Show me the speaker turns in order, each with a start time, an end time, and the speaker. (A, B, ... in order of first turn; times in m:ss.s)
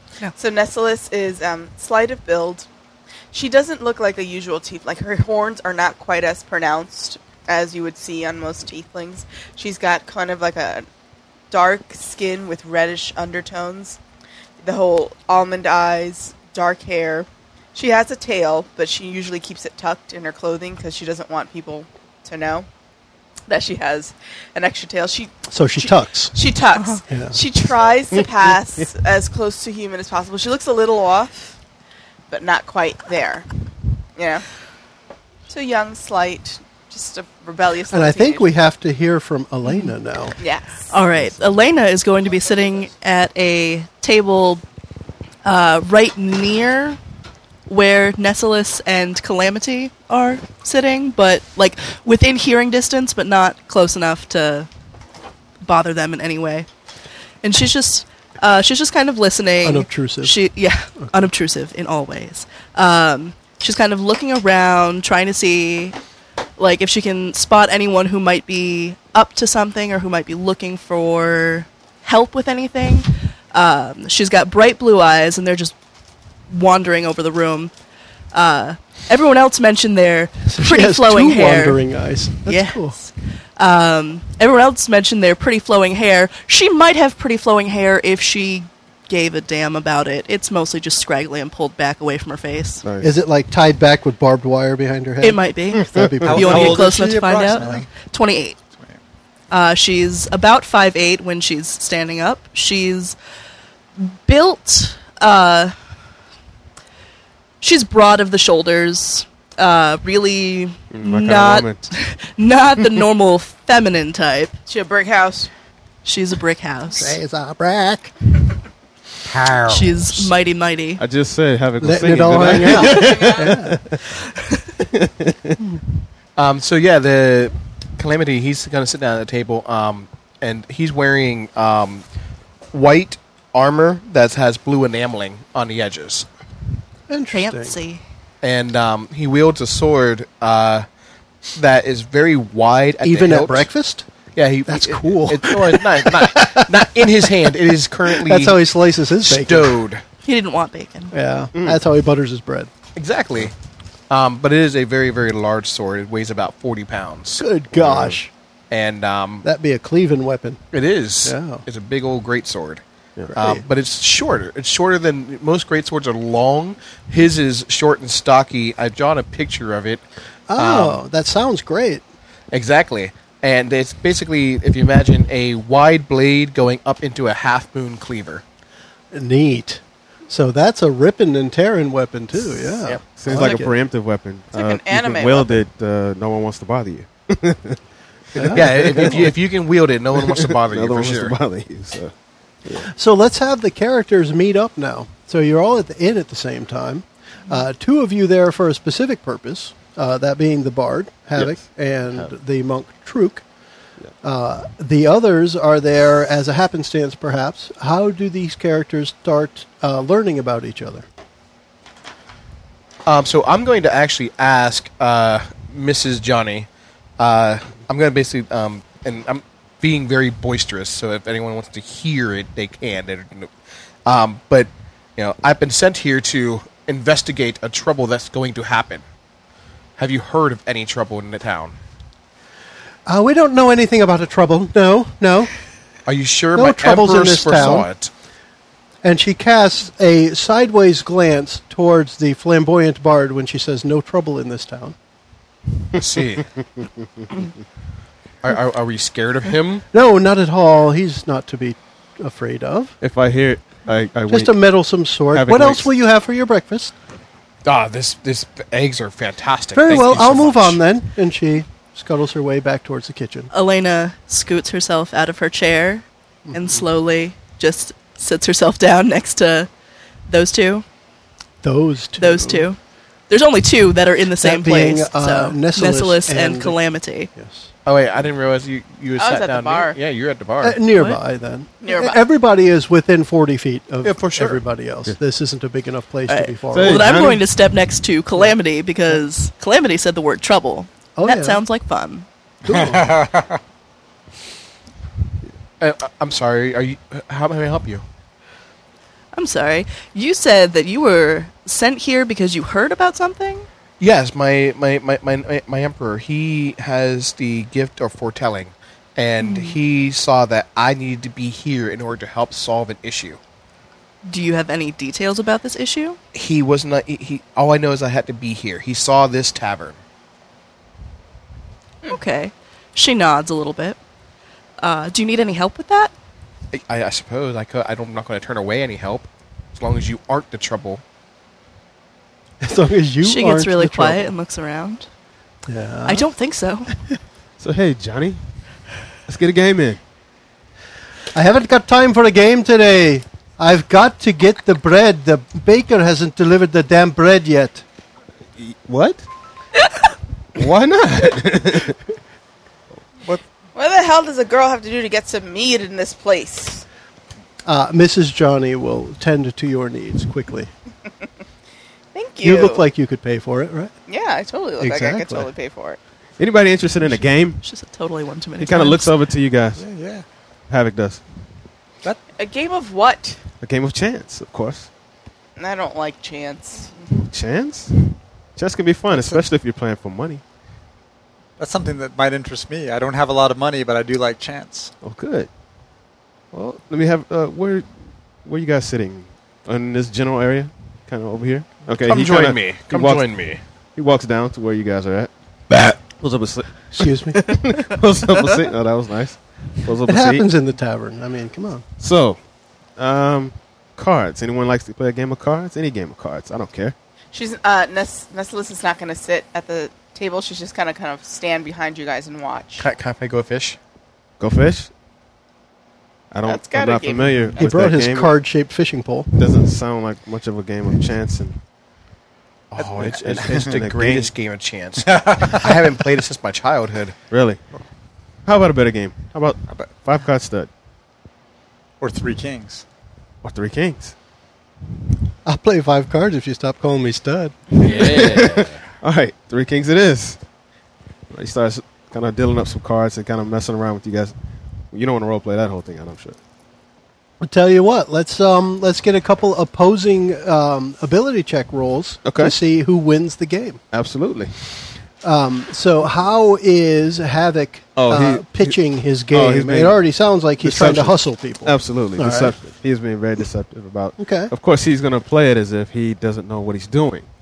0:00.4-0:02.7 A
0:03.3-0:10.9 A
0:11.5-0:14.0 A
0:14.6-0:22.7 A
0:23.5-0:31.6 A
0:25.5-0:26.4 B
0:27.1-0:27.4 B
0:32.3-0:33.5 A
0:34.2-0:34.4 A
0:35.5-0:38.7 A
0:37.9-0:40.4 B
0:39.6-0:39.9 C
0:40.4-0:41.0 A
0:40.9-0:44.6 C
0:45.4-0:47.0 C
0:47.7-0:54.7 C
0:55.6-0:56.7 C
0:57.4-1:06.0 C
0:59.6-1:00.3 B
1:06.6-1:15.8 C
1:16.5-1:17.7 C
1:18.3-1:21.8 C
1:20.5-1:23.0 B
1:22.4-1:32.8 C
1:32.8-1:33.1 D
1:33.0-1:37.8 B
1:35.2-1:38.6 C
1:35.8-1:36.3 D
1:36.2-1:37.9 E
1:39.5-1:43.2 C
1:44.0-1:45.8 C
1:47.6-1:54.6 C
1:50.9-1:51.8 D
1:54.7-1:55.5 A
1:56.0-1:57.2 C
1:57.0-1:58.1 B
1:59.3-2:00.3 F
1:59.7-2:01.0 C
2:01.0-2:04.0 D
2:01.8-2:03.8 B
2:02.6-2:03.5 A
2:04.8-2:05.6 D
2:06.4-2:12.0 F
2:12.7-2:16.3 F
2:17.1-2:17.8 B
2:17.3-2:18.0 C
2:18.4-2:20.9 F
2:21.5-2:23.7 F
2:23.0-2:24.1 B
2:24.4-2:28.6 F
2:24.7-2:27.5 B
2:28.1-2:29.8 B
2:29.2-2:30.0 F
2:30.2-2:31.1 C
2:31.1-2:32.7 B
2:31.6-2:31.8 D
2:33.0-2:33.5 F
2:34.1-2:37.4 F
2:37.4-2:38.3 B
2:37.8-2:38.2 D
2:38.7-2:39.4 F
2:39.4-2:40.6 B
2:40.7-2:42.8 F
2:41.2-2:41.6 B
2:43.3-2:43.6 B
2:43.4-2:50.0 F
2:50.5-2:52.0 B
2:50.6-2:51.0 F
2:52.5-2:58.4 F
2:59.1-3:03.7 B
3:03.2-3:07.8 D
3:04.5-3:05.6 A
3:08.4-3:09.3 B
3:08.4-3:11.4 F
3:08.4-3:09.4 D
3:10.2-3:12.1 D
3:12.8-3:23.4 B
3:24.2-3:31.1 B
3:33.1-3:36.7 F
3:37.2-3:43.5 F
3:44.1-3:49.0 F
3:50.0-3:51.8 F
3:53.1-3:55.5 B
3:56.1-3:58.1 F
3:56.6-3:57.9 B
3:59.0-4:05.0 B
4:06.0-4:06.5 F
4:08.4-4:09.8 F
4:09.9-4:13.0 B
4:13.0-4:14.6 D
4:14.3-4:16.9 B
4:15.3-4:15.9 D
4:17.6-4:20.8 F
4:19.8-4:23.5 B
4:23.5-4:29.7 C
4:26.5-4:26.8 B
4:30.3-4:30.8 C
4:31.6-4:32.7 B
4:32.2-4:37.3 C
4:34.4-4:36.8 B
4:37.4-4:37.7 B
4:37.9-4:40.8 F
4:39.2-4:40.0 A
4:40.6-4:47.2 B
4:40.9-4:41.2 C
4:41.8-4:42.2 A
4:44.0-4:44.6 F
4:46.3-4:52.3 C
4:46.7-4:47.4 D
4:51.2-4:51.6 B
4:52.7-4:53.1 B
4:52.7-4:53.6 E
4:55.8-4:58.0 F
4:59.3-5:03.7 C
5:04.0-5:13.4 F
5:09.4-5:09.8 C
5:14.3-5:16.2 C
5:16.3-5:20.0 F
5:22.1-5:24.0 C
5:24.8-5:26.1 C
5:26.7-5:31.0 F
5:32.6-5:34.3 B
5:33.2-5:35.1 C
5:35.7-5:36.3 B
5:36.1-5:36.9 C
5:37.6-5:38.4 D
5:39.3-5:40.0 D
5:41.3-5:47.8 B
5:48.6-5:49.3 D
5:50.6-5:52.0 D
5:53.8-5:56.8 A
5:57.6-6:00.7 B
6:02.1-6:02.9 A
6:02.4-6:03.9 B
6:04.1-6:06.0 A
6:04.8-6:05.5 B
6:06.4-6:07.6 D
6:07.1-6:09.1 C
6:08.6-6:09.8 D
6:09.8-6:10.2 E
6:10.7-6:11.2 D
6:12.4-6:13.4 A
6:13.6-6:14.9 D
6:15.6-6:17.1 A
6:17.2-6:20.4 D
6:21.6-6:24.9 E
6:25.0-6:25.5 D
6:26.5-6:27.9 D
6:28.4-6:33.3 D
6:32.1-6:33.6 F
6:34.0-6:40.5 D
6:36.9-6:37.5 B
6:40.1-6:41.8 B
6:42.0-6:42.4 D
6:43.0-6:47.0 D
6:47.3-6:52.9 A
6:52.8-6:53.8 F
6:54.4-6:54.9 D
6:56.3-6:58.4 D
6:56.4-6:57.6 A
6:57.6-6:59.4 B
6:59.3-7:01.6 D
7:02.7-7:07.2 F
7:02.8-7:04.3 D
7:05.1-7:05.7 E
7:07.3-7:07.6 D
7:08.5-7:10.7 D
7:12.0-7:12.8 E
7:13.4-7:14.2 D
7:15.4-7:18.3 B
7:17.8-7:18.8 F
7:17.8-7:20.4 D
7:21.3-7:24.3 D
7:24.9-7:26.4 D
7:27.4-7:33.8 B
7:32.2-7:32.6 D
7:33.9-7:34.6 D
7:35.2-7:42.6 B
7:38.0-7:38.8 D
7:39.3-7:40.0 D
7:40.6-7:47.3 D
7:44.2-7:44.5 B